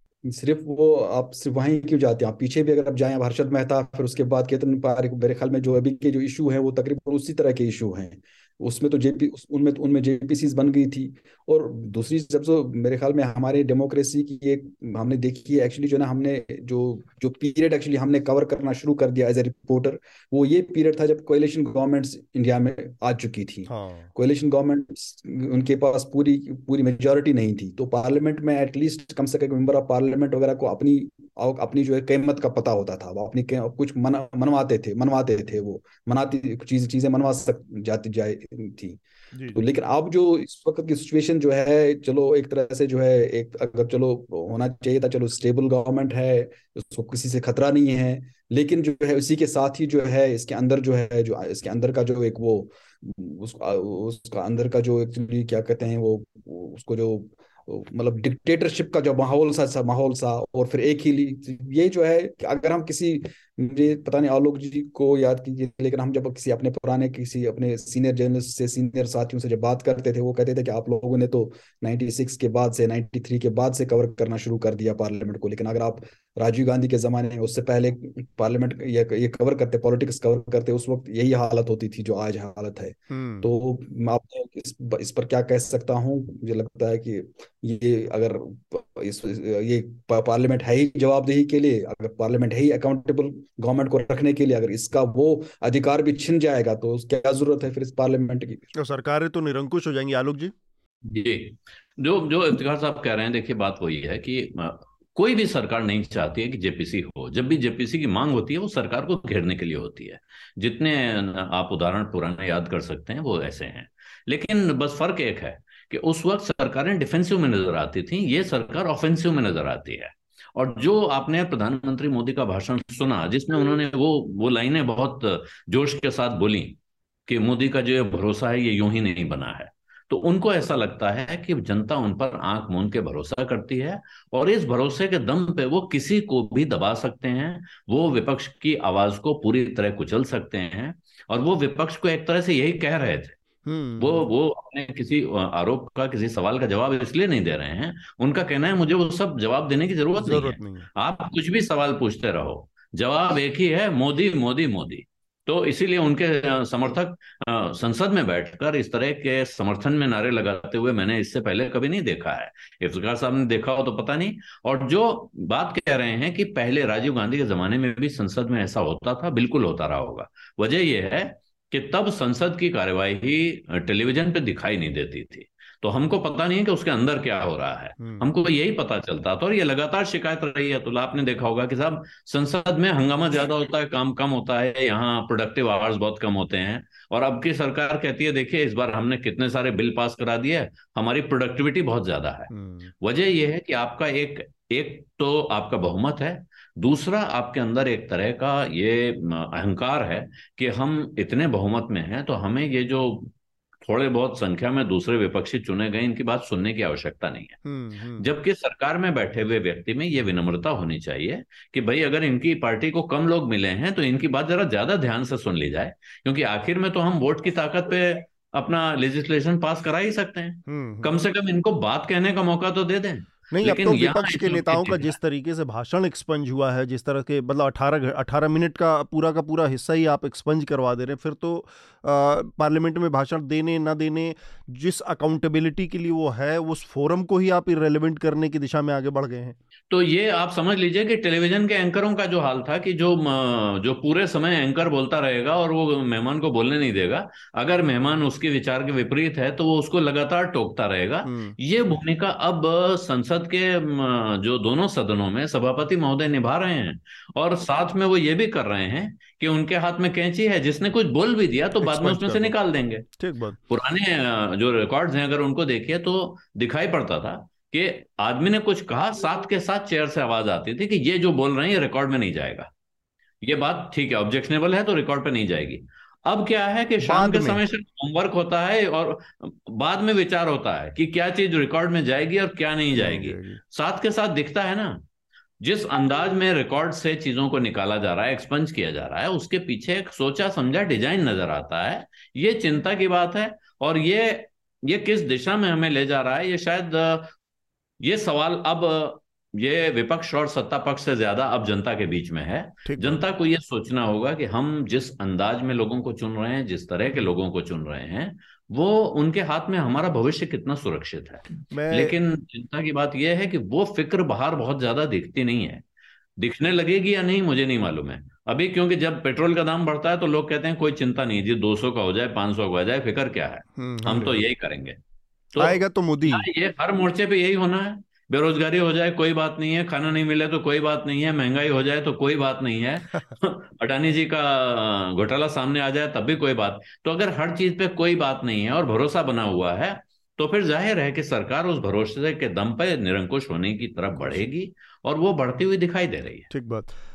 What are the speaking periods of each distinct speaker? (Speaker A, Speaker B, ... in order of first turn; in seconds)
Speaker A: 0.3-39.0, 39.5-98.6
Speaker B: 23.7-24.1, 39.3-39.6, 83.1-83.5, 98.7-100.5, 143.7-144.2, 150.2-150.9, 178.0-178.3, 192.5-192.9, 207.6-208.3, 220.7-221.1, 223.5-239.6, 251.2-251.6, 261.8-262.5, 263.2-263.6, 277.0-277.6, 282.9-283.6, 302.8-303.2, 311.7-312.1, 323.8-324.5, 325.6-326.4, 344.2-344.5, 346.5-346.9
Speaker C: 101.0-143.4, 144.0-203.3, 203.8-207.6, 208.2-225.1, 239.9-263.1, 263.7-272.7, 273.4-285.0, 285.6-297.3, 298.0-315.8, 316.4-325.0, 325.5-346.5